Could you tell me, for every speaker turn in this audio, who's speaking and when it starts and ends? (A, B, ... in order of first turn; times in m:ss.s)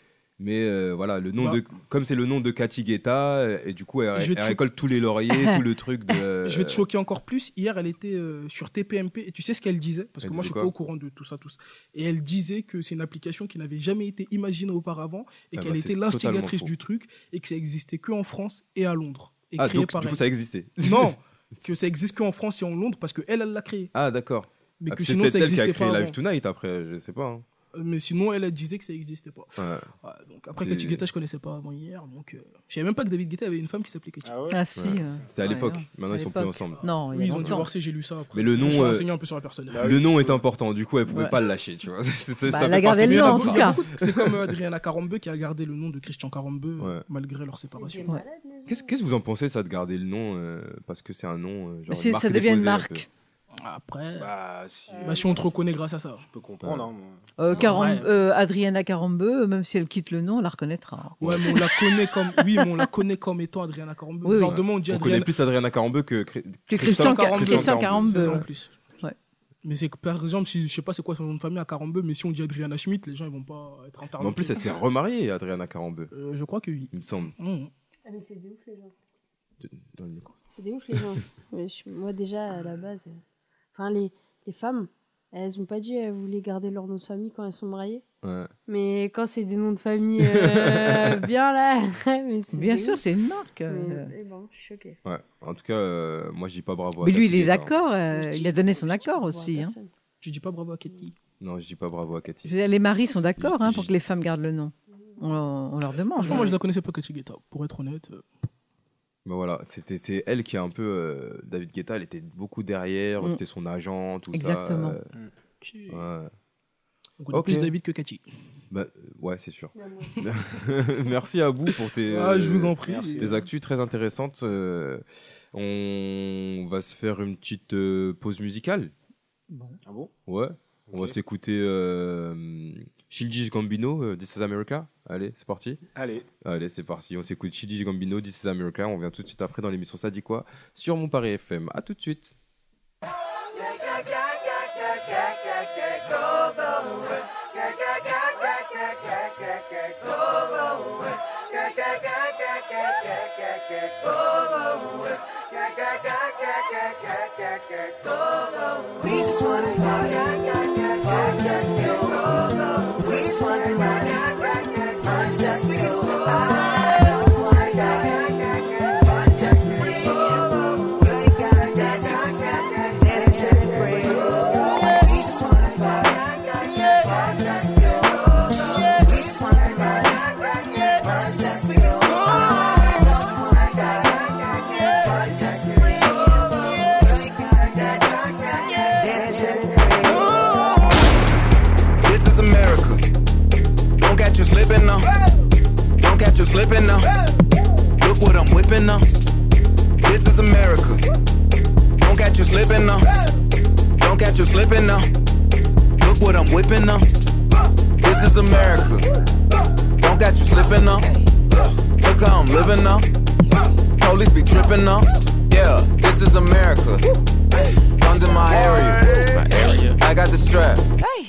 0:00.4-0:06.8 A
0:04.1-0:04.6 B
0:05.3-0:05.6 C
0:06.4-0:20.2 B
0:10.2-0:10.7 A
0:15.5-0:16.7 A
0:19.6-0:21.1 A
0:20.8-0:23.9 B
0:23.9-0:27.4 A
0:24.8-0:26.2 B
0:27.7-0:34.3 B
0:29.6-0:29.9 A
0:30.6-0:31.0 A
0:34.2-0:34.6 D
0:34.5-0:37.7 C
0:34.8-0:36.8 A
0:37.1-0:39.9 B
0:37.4-0:37.6 A
0:38.3-0:39.1 A
0:39.7-0:40.4 D
0:39.8-0:44.5 A
0:41.1-0:41.4 C
0:42.4-0:43.8 C
0:42.9-0:48.1 B
0:47.7-0:48.9 E
0:48.6-0:53.0 A
0:51.9-0:53.1 C
0:53.6-0:54.3 B
0:54.2-0:55.4 D
0:54.9-0:55.4 E
0:55.0-0:56.2 B
0:56.2-0:57.6 D
0:56.6-0:56.9 A
0:57.4-1:02.6 C
0:57.5-0:58.1 B
1:01.2-1:01.5 A
1:01.2-1:05.3 B
1:04.2-1:04.6 C
1:04.5-1:08.4 A
1:06.7-1:08.5 C
1:06.8-1:08.7 B
1:09.6-1:14.7 B
1:14.2-1:16.1 A
1:16.1-1:17.7 B
1:16.9-1:17.3 A
1:18.0-1:18.9 E
1:19.6-1:20.4 A
1:20.5-1:23.2 E
1:23.7-1:28.0 E
1:28.2-1:28.5 A
1:28.7-1:33.0 E
1:30.2-1:31.2 A
1:32.5-1:34.1 C
1:33.7-1:35.0 E
1:35.0-1:37.7 A
1:37.0-1:39.7 C
1:38.1-1:39.9 E
1:40.2-1:41.1 B
1:41.4-1:42.6 A
1:42.4-1:46.6 C
1:43.4-1:43.9 A
1:46.2-1:48.3 B
1:49.2-1:55.0 A
1:54.3-1:55.0 C
1:55.6-1:56.0 B
1:55.9-1:56.3 A
1:57.2-1:58.2 B
1:57.3-1:57.7 A
1:58.7-2:08.9 A
1:59.8-2:00.2 E
2:02.0-2:03.3 B
2:02.8-2:03.4 D
2:09.5-2:09.8 C
2:09.8-2:10.1 D
2:10.3-2:15.8 A
2:10.9-2:11.2 D
2:16.0-2:16.3 D
2:16.4-2:22.4 A
3:12.0-3:13.0 F
3:14.0-3:15.1 F
3:16.0-3:17.1 F
3:18.0-3:19.1 F
3:20.0-3:21.0 F
3:22.0-3:23.1 F
3:24.0-3:25.1 F
3:26.0-3:27.1 F
3:28.0-3:29.0 F
3:30.0-3:31.1 F
3:32.0-3:33.0 F
3:34.0-3:37.0 F
3:38.0-3:40.8 F